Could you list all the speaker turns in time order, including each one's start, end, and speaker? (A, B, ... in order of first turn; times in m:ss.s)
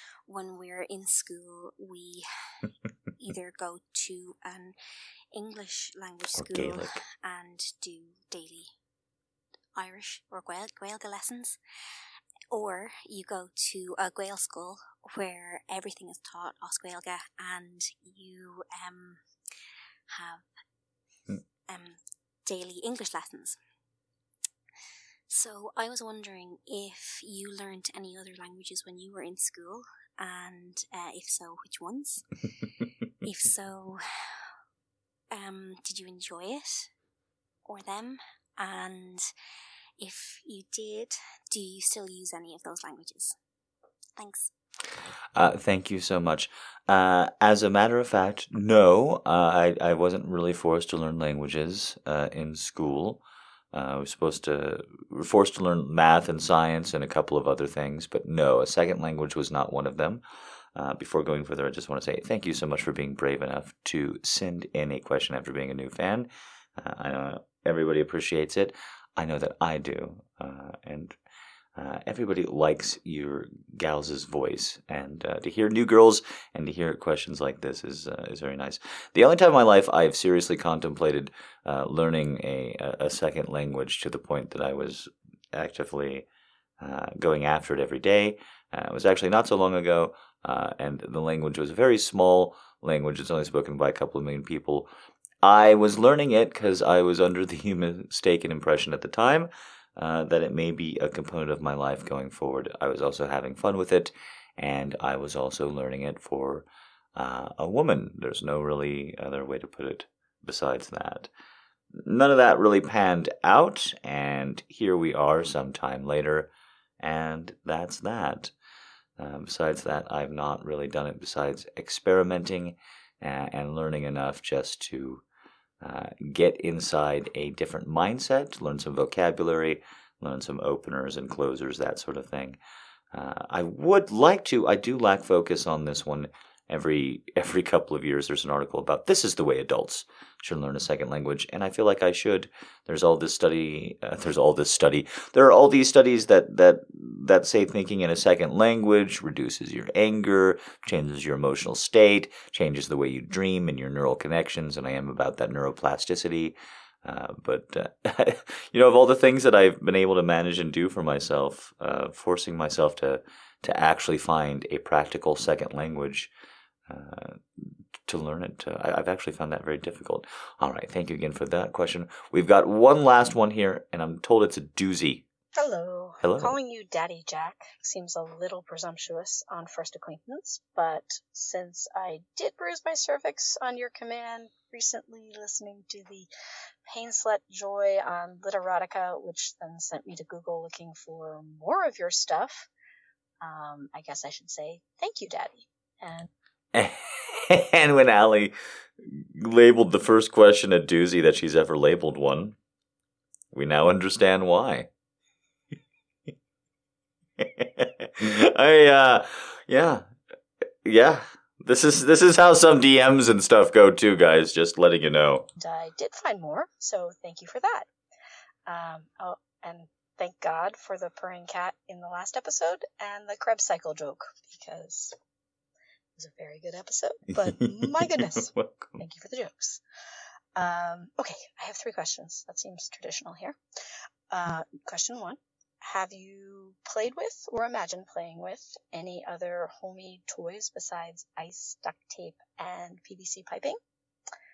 0:00.3-0:02.3 A
0:03.2-0:04.8 A
0:05.3-0:08.7 A
0:06.3-0:07.0 B
0:09.8-0:11.6 A
0:12.5-0:19.2 A
0:20.1-0:20.4 A
0:21.7-0:23.6 A
0:25.3-0:32.3 A
0:33.2-0:34.5 A
0:35.3-0:36.9 A
0:37.6-0:39.3 A
0:40.0-0:43.4 A
0:44.2-0:44.5 A
0:45.4-0:53.2 B
0:53.7-1:00.2 B
1:00.8-1:11.2 B
1:11.8-1:26.3 B
1:26.8-1:34.9 B
1:35.4-1:51.3 B
1:52.0-1:56.5 B
1:57.0-1:58.5 B
1:59.2-2:05.2 B
2:05.8-2:12.6 B
2:13.1-2:46.3 B
2:46.9-2:55.2 B
2:55.6-3:06.3 C
2:56.2-2:56.6 B
3:06.9-3:12.7 C
3:13.4-3:16.3 C
3:16.7-3:22.6 B
3:23.5-3:24.9 B
3:27.4-3:30.1 B
3:30.8-3:35.5 B
3:35.6-3:37.9 C
3:38.7-3:45.1 C
3:46.2-3:49.8 C
3:47.3-3:49.0 B
3:50.6-3:53.6 C
3:54.3-4:03.8 C